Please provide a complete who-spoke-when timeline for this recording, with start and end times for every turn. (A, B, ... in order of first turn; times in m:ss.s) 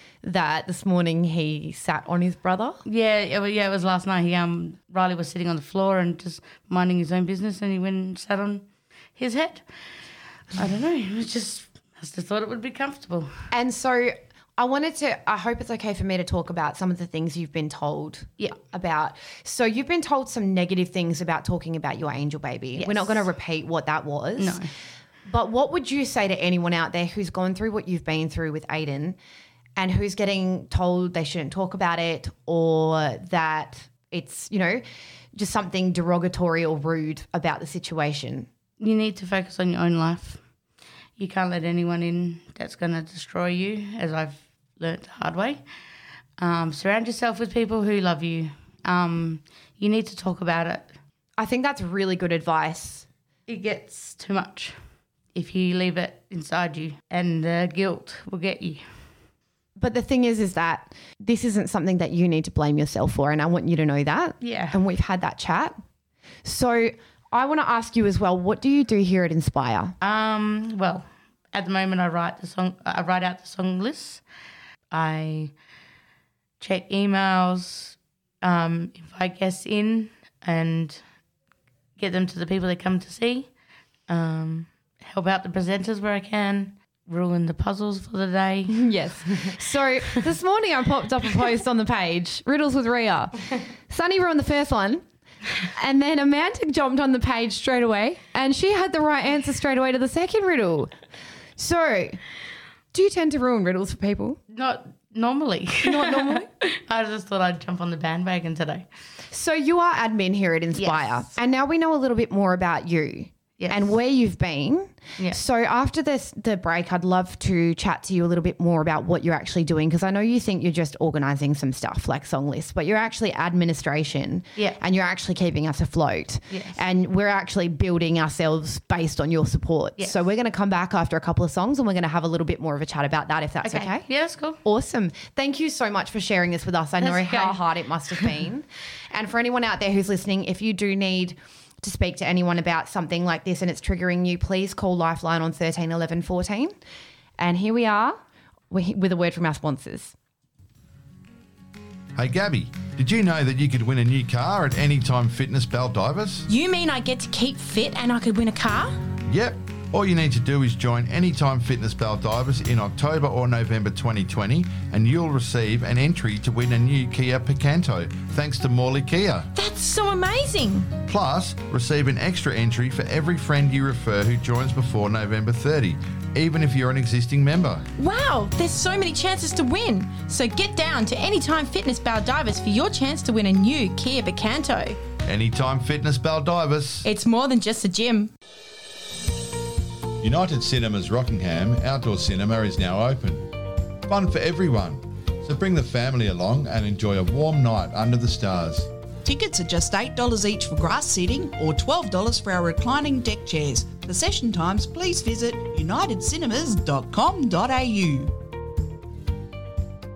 0:00.2-0:02.8 A
0:02.9-0:13.5 B
0:13.5-0:24.7 A
0:22.8-0:23.3 B
0:24.4-0:24.7 B
0:25.3-0:29.2 A
0:29.8-0:38.5 A
0:38.8-0:40.4 B
0:41.2-0:45.6 B
0:46.4-0:51.0 B
0:51.4-0:53.1 A
0:53.5-0:54.8 B
0:55.3-0:58.9 B
0:59.8-1:05.8 A
1:04.4-1:04.8 B
1:06.4-1:10.0 A
1:10.0-1:14.2 B
1:14.9-1:15.6 B
1:16.6-1:21.0 B
1:22.0-1:23.5 B
1:24.1-1:28.8 B
1:28.7-1:35.0 A
1:35.7-1:40.9 A
1:41.6-1:42.2 A
1:42.9-1:44.4 A
1:44.5-1:48.9 B
1:45.8-1:46.5 A
1:49.3-2:14.1 A
1:50.8-1:51.3 B
1:53.6-1:53.9 B
2:06.5-2:06.8 B
2:13.6-2:14.6 B
2:14.6-2:26.8 A
2:17.0-2:18.4 B
2:27.4-2:28.2 A
2:28.7-2:30.2 A
2:32.2-2:36.5 C
2:36.5-2:38.9 D
2:39.3-2:49.5 C
2:49.6-2:50.9 D
2:51.1-2:57.9 C
2:58.0-3:05.0 D
3:05.2-3:07.1 C
3:07.0-3:08.3 D
3:10.2-3:13.5 C
3:14.1-3:18.9 C
3:19.2-3:28.4 E